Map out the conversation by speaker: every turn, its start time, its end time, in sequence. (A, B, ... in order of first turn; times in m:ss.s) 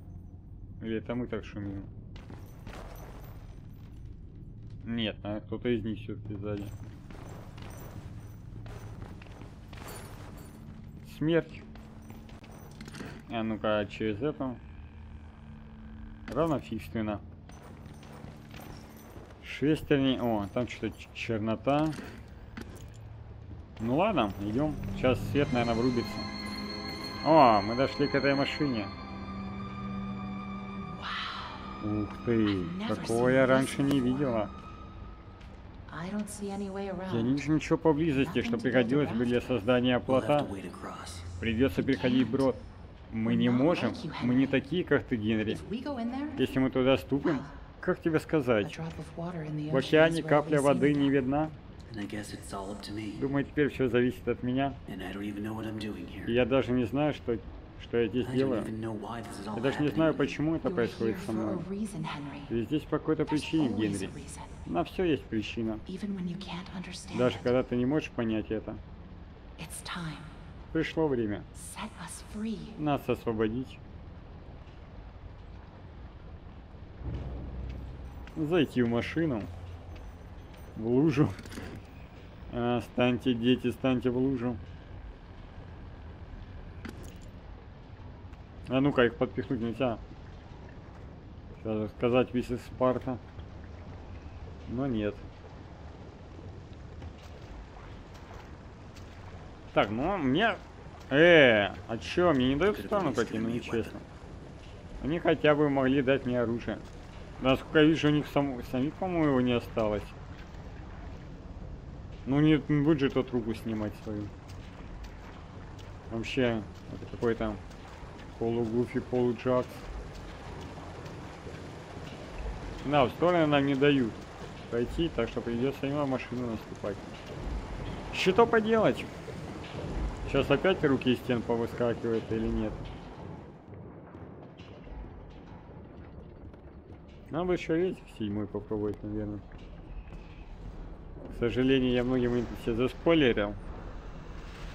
0:00.8-0:01.9 A
0:04.8-0:06.7 A
0:11.0-0:11.6 A
0:13.3-0:14.6 A
0:16.3-0:17.2 A
0:19.4-0:22.0 A
0:23.8-0:26.3 A
0:27.2-0:28.9 A
0:30.9-0:31.7 B
0:31.8-0:34.5 A
0:32.5-0:34.5 B
0:35.9-0:37.4 B
0:37.1-0:40.5 A
0:38.2-0:39.4 B
0:40.0-0:41.3 C
0:41.4-0:45.6 A
0:41.8-0:42.5 B
0:43.2-0:44.6 B
0:45.5-0:46.4 B
0:46.4-0:48.8 A
0:47.2-0:47.5 B
0:48.6-0:51.2 B
0:49.7-0:51.6 A
0:51.9-0:53.2 C
0:53.2-0:54.8 A
0:54.9-0:56.4 C
0:56.2-0:58.7 A
0:58.2-1:00.4 C
0:59.5-1:01.6 A
1:00.6-1:02.5 B
1:02.5-1:04.1 A
1:03.3-1:04.7 B
1:04.6-1:05.8 A
1:05.8-1:07.5 B
1:07.1-1:08.8 A
1:09.6-1:10.3 B
1:10.7-1:11.5 A
1:11.5-1:12.8 B
1:12.8-1:13.8 A
1:18.4-1:19.5 A
1:20.7-1:21.4 A
1:22.5-1:24.6 A
1:28.7-1:30.0 A
1:31.6-1:33.2 A
1:34.6-1:35.2 A
1:39.7-1:44.0 A
1:42.6-1:44.0 C
1:45.0-1:46.8 A
1:47.4-1:50.2 A
1:52.2-1:54.3 A
1:56.1-1:57.6 A
1:58.4-1:59.9 A
2:02.8-2:07.2 A
2:08.1-2:09.1 A
2:10.2-2:12.8 A
2:17.3-2:19.4 A
2:21.3-2:23.6 A